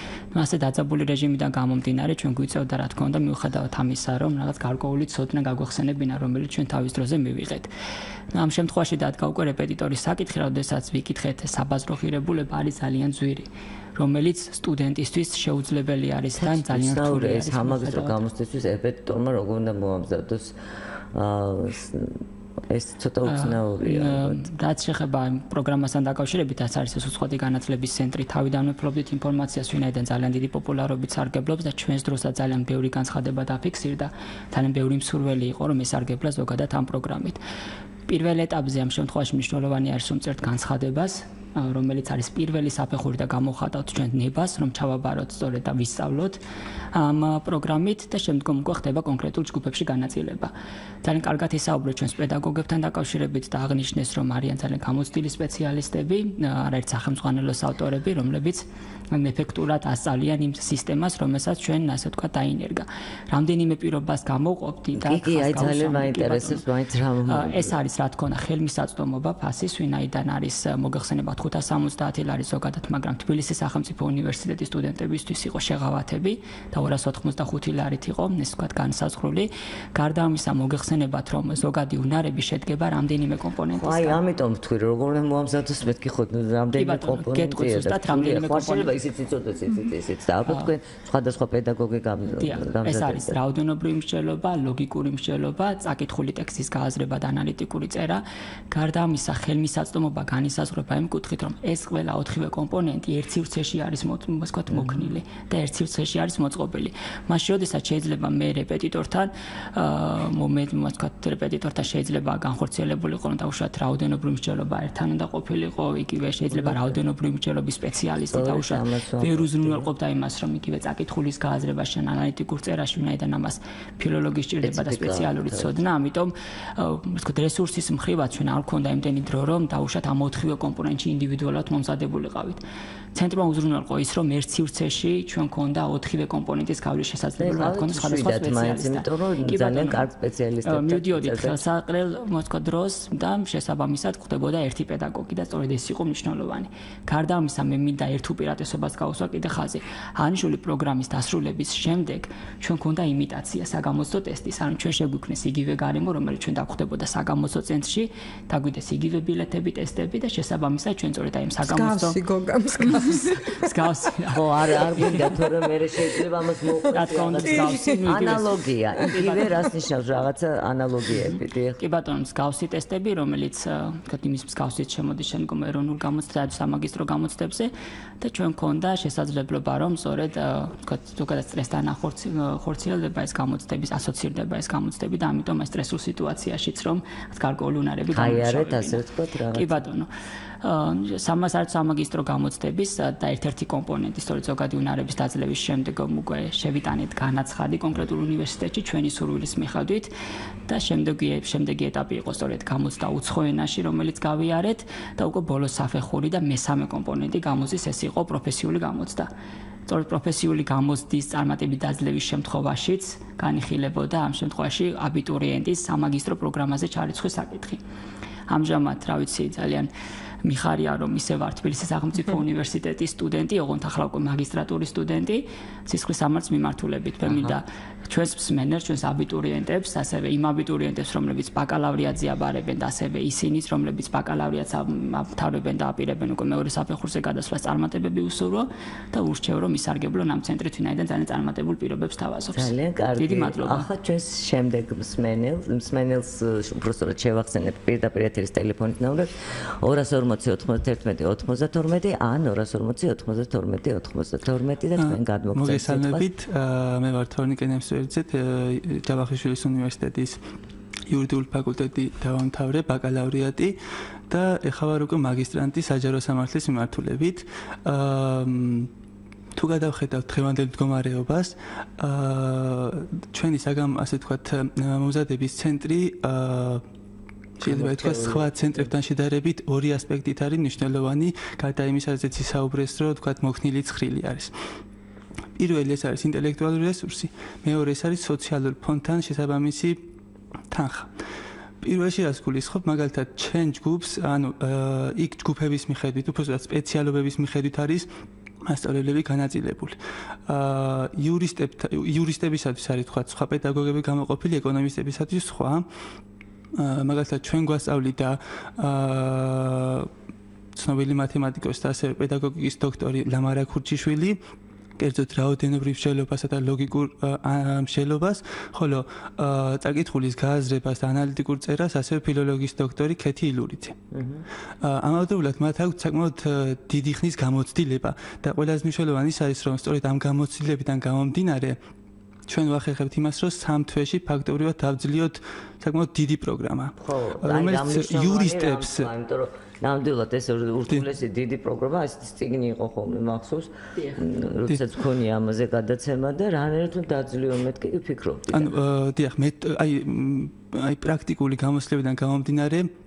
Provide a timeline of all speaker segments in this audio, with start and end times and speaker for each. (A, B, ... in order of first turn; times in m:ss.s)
0:00.3-0:07.7 A
0:08.3-0:18.2 A
0:16.3-0:20.5 B
0:21.1-0:24.4 B
0:23.2-0:37.4 A
0:38.1-0:46.4 A
0:46.9-0:50.5 A
0:51.0-1:06.6 A
1:05.0-1:07.7 B
1:07.3-1:24.2 A
1:23.7-1:33.4 B
1:26.7-1:28.9 A
1:30.4-1:30.7 A
1:32.3-2:12.6 A
1:56.5-1:57.0 B
1:58.3-1:59.9 B
2:04.6-2:05.8 B
2:13.1-2:20.1 A
2:17.4-2:21.6 B
2:20.6-2:42.2 A
2:41.6-2:44.1 C
2:42.8-2:45.3 A
2:44.3-2:51.8 B
2:46.8-2:48.1 C
2:46.9-2:48.5 A
2:49.0-2:49.6 C
2:49.0-2:49.7 A
2:51.8-3:09.0 A
3:08.1-3:09.8 B
3:09.5-3:10.1 A
3:10.6-3:20.1 A
3:20.7-3:29.3 A
3:29.9-3:37.8 A
3:38.5-3:39.9 A
3:40.4-4:03.9 A
3:47.3-3:47.6 B
4:02.5-4:09.3 B
4:09.8-4:16.3 B
4:15.0-4:20.4 D
4:21.1-4:23.8 D
4:24.3-4:28.9 D
4:29.6-4:36.8 D
4:37.6-4:44.5 D
4:37.6-4:38.9 B
4:45.6-4:50.0 D
4:50.7-4:51.1 D
4:51.8-4:58.1 D
4:58.6-5:05.8 D
5:06.8-5:10.1 D
5:10.7-5:14.4 D
5:15.0-5:24.0 D
5:24.1-5:24.4 B
5:24.8-5:31.8 D
5:32.5-5:39.1 D
5:37.0-5:48.7 B
5:44.0-5:44.2 A
5:48.5-5:52.9 D